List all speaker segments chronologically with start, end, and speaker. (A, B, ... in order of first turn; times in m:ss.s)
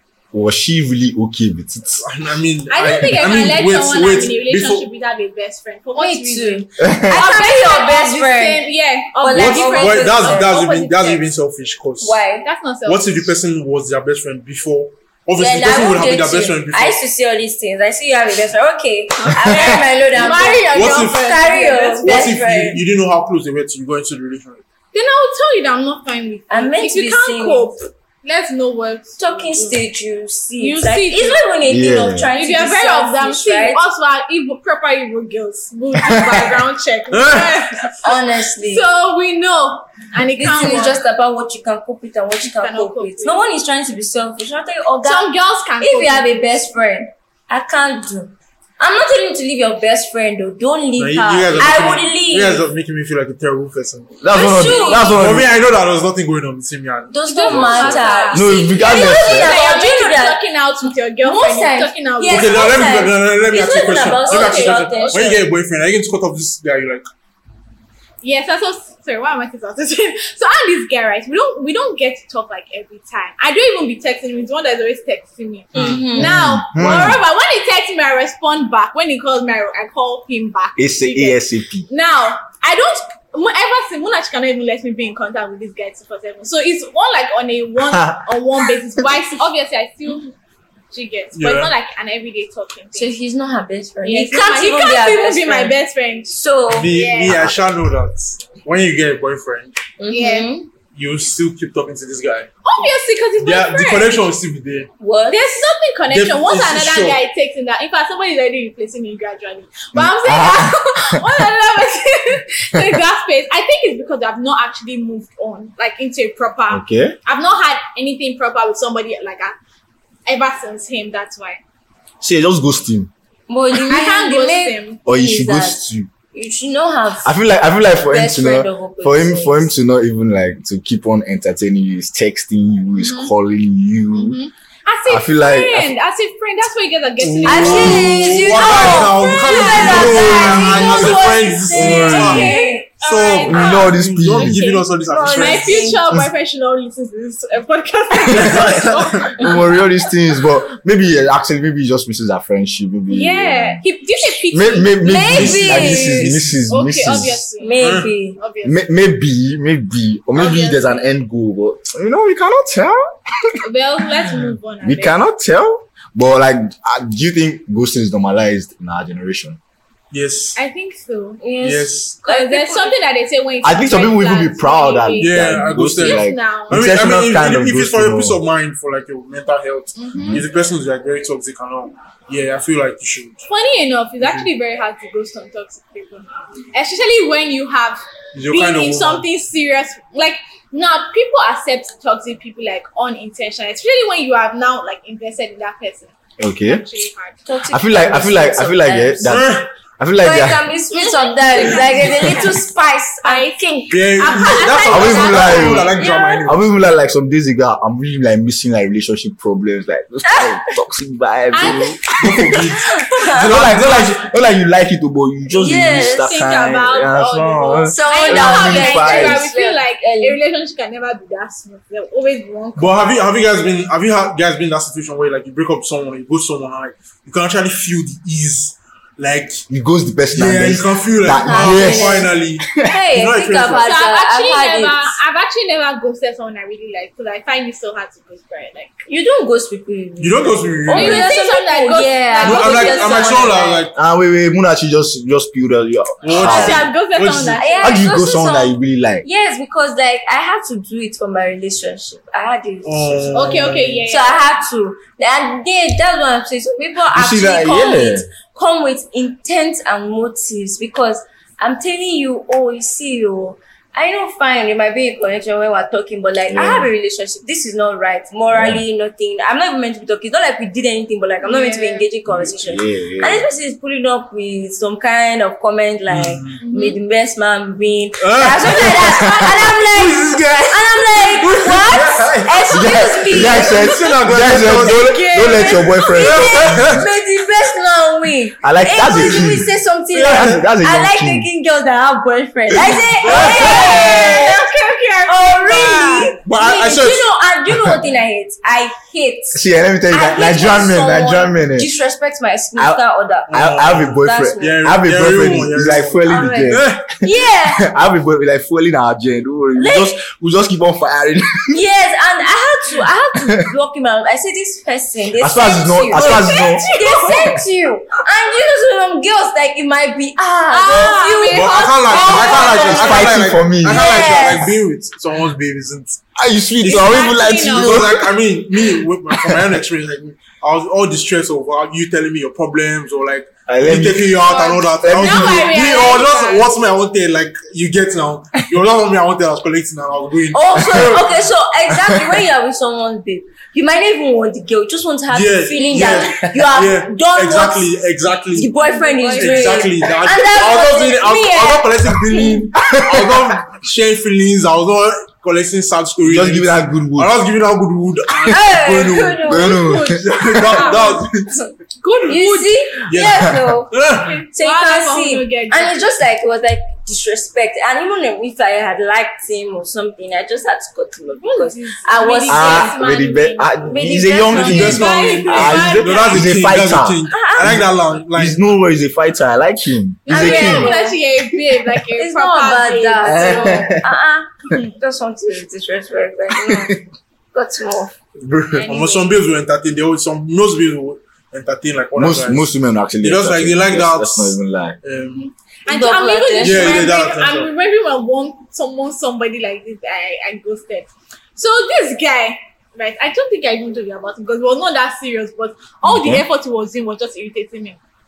0:00.3-0:02.0 A
0:02.0-0:04.9 B
0:02.7-0:11.3 C
0:06.0-0:08.6 D
0:06.8-0:07.2 A
0:09.2-0:10.6 D
0:09.3-0:12.2 B
0:12.0-0:12.5 D
0:12.4-0:13.3 C
0:12.9-0:17.0 B
0:15.4-0:22.8 D
0:19.2-0:22.2 C
0:19.5-0:19.8 A
0:20.7-0:21.3 B
0:22.0-0:24.6 B
0:24.9-0:29.8 C
0:26.5-0:27.8 D
0:29.2-0:33.8 D
0:30.6-0:31.5 C
0:31.7-0:32.3 A
0:32.4-0:41.0 C
0:36.0-0:36.4 A
0:37.1-0:37.6 B
0:38.0-0:38.8 D
0:40.4-0:52.7 D
0:42.4-0:43.4 C
0:45.0-0:46.4 C
0:51.0-0:54.2 B
0:54.2-0:55.5 A
0:54.3-0:55.2 D
0:54.6-0:55.0 C
0:55.0-0:58.2 B
0:57.1-1:00.4 D
0:57.2-1:02.6 C
0:58.3-0:59.5 A
1:01.2-1:05.5 D
1:02.3-1:07.1 B
1:04.3-1:05.4 C
1:08.2-1:30.3 C
1:15.7-1:16.2 B
1:15.8-1:16.3 D
1:16.2-1:17.2 A
1:16.8-1:17.1 B
1:20.8-1:21.9 A
1:27.9-1:28.2 A
1:30.9-1:33.1 C
1:31.3-1:31.7 B
1:32.9-1:35.8 D
1:34.0-1:36.3 C
1:36.3-1:36.9 D
1:36.7-1:39.8 B
1:36.8-1:37.5 C
1:40.0-1:40.7 D
1:40.1-1:40.5 C
1:41.0-1:42.5 B
1:42.6-1:44.2 C
1:43.4-1:44.9 B
1:45.0-1:45.5 D
1:45.3-1:59.6 C
1:46.1-1:47.2 B
1:50.0-1:51.2 A
1:56.7-1:57.2 A
2:00.3-2:01.6 C
2:02.2-2:03.1 A
2:03.5-2:05.8 D
2:03.9-2:05.0 C
2:05.1-2:06.1 A
2:06.3-2:07.3 D
2:07.2-2:14.4 A
2:08.0-2:09.7 D
2:13.0-2:13.3 C
2:14.1-2:18.2 C
2:15.1-2:15.9 A
2:17.2-2:25.9 B
2:17.4-2:22.9 D
2:18.7-2:29.8 C
2:19.7-2:21.1 A
2:21.7-2:22.5 A
2:23.4-2:24.6 A
2:25.1-2:26.1 D
2:28.3-2:33.8 A
2:28.3-2:29.4 B
2:33.1-2:35.3 C
2:34.5-2:37.4 A
2:35.0-2:36.4 D
2:35.3-2:36.6 B
2:36.7-2:38.8 C
2:37.6-2:38.4 D
2:37.8-2:38.1 B
2:38.6-2:43.6 A
2:40.4-2:41.0 C
2:43.6-2:45.2 C
2:44.8-2:49.6 A
2:50.1-2:50.6 B
2:50.6-2:51.4 C
2:51.4-2:53.0 D
2:51.6-2:52.2 B
2:52.2-2:56.8 C
2:53.6-2:58.4 A
2:55.2-3:03.4 B
3:00.0-3:00.4 C
3:00.2-3:00.4 A
3:03.5-3:17.4 C
3:04.2-3:04.5 B
3:08.3-3:09.3 B
3:16.4-3:16.8 A
3:17.5-3:19.5 D
3:17.7-3:20.6 A
3:19.3-3:19.6 B
3:20.2-3:26.4 D
3:20.9-3:22.6 C
3:23.2-3:25.9 C
3:23.9-3:26.7 B
3:24.9-3:25.9 A
3:26.4-3:32.7 A
3:30.3-3:30.6 D
3:31.5-3:32.1 C
3:32.2-3:34.2 B
3:32.8-3:33.8 D
3:33.3-3:39.5 A
3:35.5-3:36.5 D
3:36.2-3:43.2 C
3:37.9-3:40.4 D
3:42.8-3:49.7 B
3:49.7-3:52.9 A
3:50.3-3:53.9 B
3:51.4-3:55.2 D
3:53.8-3:59.0 C
3:59.1-4:03.9 D
4:00.2-4:01.3 B
4:00.9-4:03.3 C
4:02.4-4:03.9 B
4:04.0-4:06.9 A
4:06.2-4:07.6 B
4:06.4-4:06.8 D
4:06.4-4:08.0 C
4:07.6-4:13.5 D
4:07.8-4:09.2 A
4:12.8-4:14.1 B
4:13.3-4:14.5 C
4:14.1-4:44.2 D
4:17.1-4:18.3 A
4:26.5-4:26.9 A
4:28.5-4:28.8 A
4:31.4-4:32.1 C
4:32.5-4:33.5 A
4:36.1-4:36.6 B
4:36.6-4:37.0 C
4:38.2-4:42.6 B
4:42.7-4:47.0 A
4:43.3-4:45.2 B
4:44.8-4:54.7 D
4:45.2-4:45.7 C
4:46.2-4:47.0 B
4:48.6-4:49.7 A
4:49.1-4:49.5 B
4:50.1-4:50.6 B
4:50.2-4:51.5 A
4:53.2-4:54.2 B
4:53.3-4:56.4 C
4:55.3-5:04.8 D
4:56.4-4:57.3 B
4:59.5-5:01.9 A
5:02.8-5:07.0 A
5:03.5-5:07.1 B
5:06.3-5:07.9 D
5:07.8-5:11.8 A
5:09.8-5:10.1 D
5:11.7-5:24.7 D
5:15.4-5:16.9 A
5:16.1-5:17.6 C
5:20.7-5:23.2 C
5:21.5-5:26.2 B
5:22.8-5:24.3 A
5:26.4-5:28.3 A
5:26.8-5:41.3 B
5:26.8-5:28.2 C
5:29.3-5:29.7 A
5:33.7-5:34.4 A
5:34.4-5:36.7 C
5:34.9-5:35.8 A
5:40.5-5:47.9 D
5:40.8-5:41.2 A
5:41.9-5:42.4 A
5:45.3-5:48.7 B
5:45.8-5:46.1 C
5:48.5-5:52.7 D
5:48.7-5:50.5 C
5:49.3-5:59.5 B
5:52.8-5:53.5 A
5:56.2-5:57.4 A
5:58.5-5:59.9 D
5:59.4-6:01.0 A
5:59.6-6:01.2 C
6:00.2-6:01.6 B
6:02.0-6:02.8 C
6:02.3-6:04.0 D
6:03.1-6:04.4 B
6:04.2-6:06.1 C
6:04.5-6:13.0 D
6:11.4-6:16.6 C
6:12.5-6:21.0 A
6:13.8-6:15.8 D
6:14.5-6:18.6 B
6:17.3-6:17.8 D
6:20.3-6:24.0 C
6:20.3-6:21.2 D
6:22.2-6:27.0 D
6:23.2-6:24.0 A
6:26.5-6:27.0 A
6:27.5-6:28.1 D
6:28.4-6:28.9 A
6:28.7-6:29.4 C
6:28.8-6:32.7 B
6:32.2-6:35.0 A
6:33.2-6:35.5 B
6:35.4-6:48.0 C
6:35.9-6:37.1 D
6:36.6-6:37.7 B
6:46.0-6:46.4 A